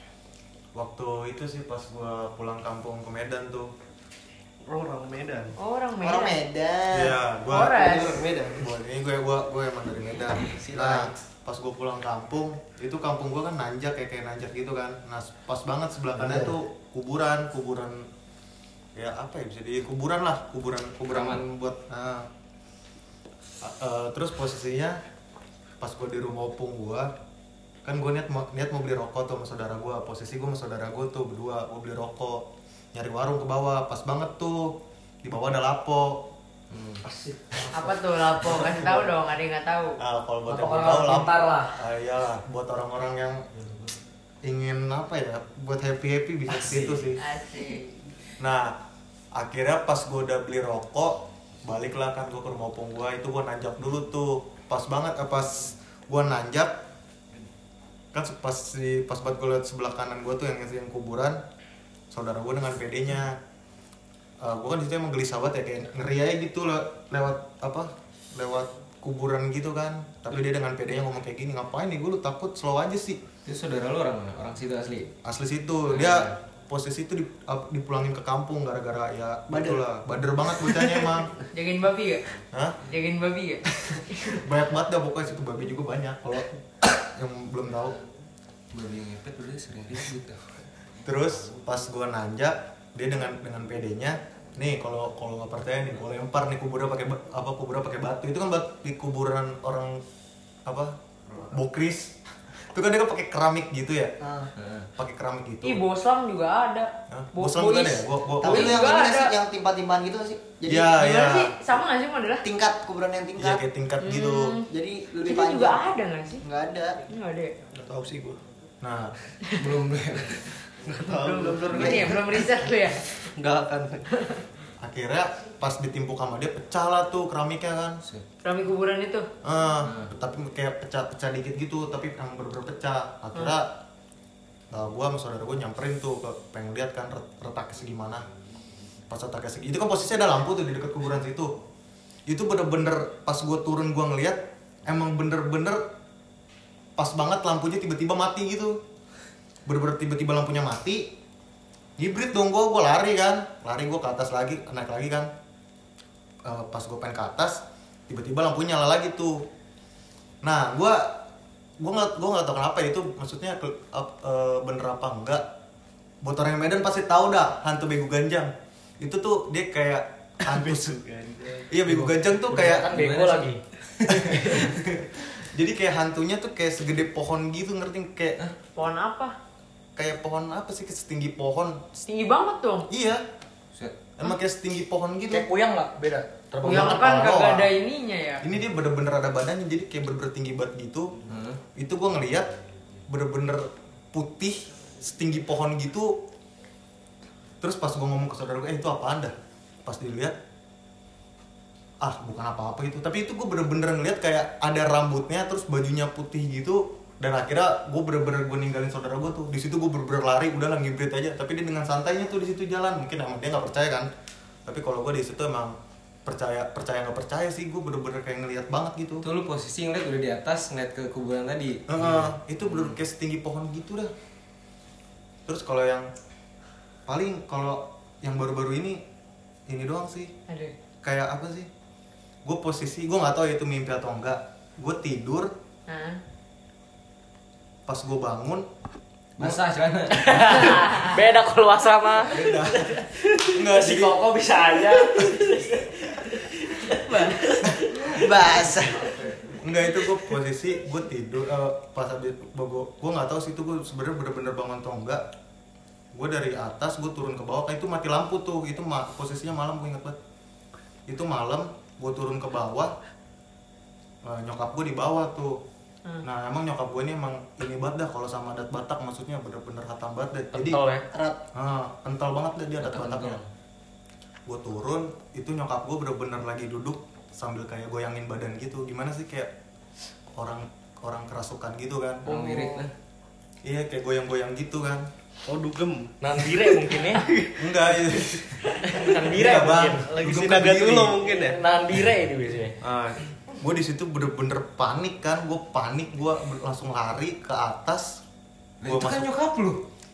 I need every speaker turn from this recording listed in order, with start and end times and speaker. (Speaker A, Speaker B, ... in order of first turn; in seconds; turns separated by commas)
Speaker A: 0.7-3.7, Speaker B: 4.7-5.5, Speaker C: 5.6-6.4, Speaker D: 6.0-7.2, Speaker A: 6.9-18.1, Speaker C: 7.5-8.2, Speaker B: 7.5-8.6, Speaker B: 10.6-11.1, Speaker D: 16.2-16.6, Speaker A: 18.9-22.3, Speaker E: 21.1-21.4, Speaker A: 23.6-25.0, Speaker A: 25.8-27.1, Speaker A: 27.9-36.3, Speaker E: 36.7-37.0, Speaker F: 37.0-37.5, Speaker C: 37.7-40.0, Speaker A: 38.4-39.1, Speaker A: 40.0-43.4, Speaker F: 40.5-41.8, Speaker A: 44.4-47.2, Speaker E: 46.6-47.0, Speaker C: 47.2-47.9, Speaker A: 48.4-48.8, Speaker A: 49.4-56.8, Speaker A: 58.1-61.4, Speaker A: 62.1-63.4, Speaker A: 64.4-73.2, Speaker E: 73.4-75.1, Speaker A: 75.2-81.4, Speaker E: 75.9-76.3, Speaker D: 79.5-79.8, Speaker D: 80.6-81.0, Speaker C: 81.4-82.2, Speaker A: 82.5-82.8, Speaker C: 82.8-84.4, Speaker A: 84.3-88.0, Speaker E: 88.7-90.4, Speaker A: 91.0-100.0, Speaker A: 100.6-102.1, Speaker A: 102.7-104.1, Speaker D: 104.2-104.5, Speaker E: 104.6-104.9, Speaker A: 105.0-105.8, Speaker C: 105.6-109.3, Speaker A: 107.1-108.9, Speaker D: 108.4-111.1, Speaker A: 110.7-111.5, Speaker C: 110.9-112.4, Speaker D: 112.4-113.6, Speaker A: 113.4-114.6, Speaker C: 114.0-114.7, Speaker D: 114.6-117.0, Speaker C: 115.2-116.4, Speaker C: 117.1-117.5, Speaker B: 117.7-118.4, Speaker A: 118.8-119.1, Speaker E: 119.5-120.6, Speaker B: 120.9-122.3, Speaker C: 121.0-123.2, Speaker E: 121.7-122.1, Speaker B: 123.4-124.0, Speaker C: 124.1-124.4, Speaker A: 124.8-128.0, Speaker C: 128.4-129.3, Speaker A: 129.4-133.8, Speaker E: 129.8-130.1, Speaker A: 134.7-138.2, Speaker A: 139.1-141.5, Speaker A: 142.3-145.8, Speaker A: 147.0-148.8, Speaker A: 149.7-151.1, Speaker A: 152.0-155.3, Speaker A: 156.4-159.4, Speaker A: 160.4-161.2, Speaker A: 161.8-165.4, Speaker A: 166.2-171.0, Speaker B: 170.5-171.6, Speaker A: 171.6-173.0, Speaker F: 171.9-173.6, Speaker E: 172.9-174.7, Speaker F: 174.2-174.7, Speaker A: 175.4-178.4, Speaker C: 178.8-179.4, Speaker A: 179.9-182.0, Speaker C: 182.1-182.9, Speaker A: 182.9-183.2, Speaker A: 184.2-185.5, Speaker F: 185.3-187.1, Speaker A: 186.6-187.7, Speaker C: 186.6-188.4, Speaker A: 188.4-192.5, Speaker E: 191.3-191.6, Speaker A: 193.1-196.2, Speaker A: 197.6-199.3, Speaker A: 199.8-200.3, Speaker A: 202.0-214.1, Speaker A: 214.7-219.2, Speaker E: 219.2-223.0, Speaker A: 221.9-224.1, Speaker A: 225.4-226.1, Speaker A: 227.1-229.0, Speaker A: 229.7-230.3, Speaker C: 230.5-230.7, Speaker A: 231.0-231.7, Speaker A: 232.4-235.5, Speaker C: 235.9-236.2, Speaker A: 237.9-238.7, Speaker E: 239.4-240.7, Speaker F: 240.1-248.6, Speaker C: 240.7-241.1, Speaker A: 242.3-244.2, Speaker C: 246.9-247.6, Speaker D: 248.1-249.1, Speaker A: 249.4-255.2, Speaker A: 256.1-260.2, Speaker A: 261.1-262.9, Speaker A: 264.2-265.6, Speaker A: 266.2-270.9, Speaker F: 270.5-271.1, Speaker D: 271.1-271.4, Speaker A: 271.5-273.4, Speaker E: 272.8-273.4, Speaker A: 274.5-279.5, Speaker A: 280.4-282.2, Speaker E: 282.2-282.9, Speaker F: 282.3-282.9, Speaker A: 283.6-285.1, Speaker B: 285.5-287.6, Speaker F: 286.2-287.3, Speaker A: 287.6-291.2, Speaker B: 288.1-288.4, Speaker F: 288.8-290.5, Speaker B: 290.2-291.6, Speaker F: 291.2-292.8, Speaker A: 293.0-298.2, Speaker E: 298.8-299.8, Speaker A: 298.9-299.3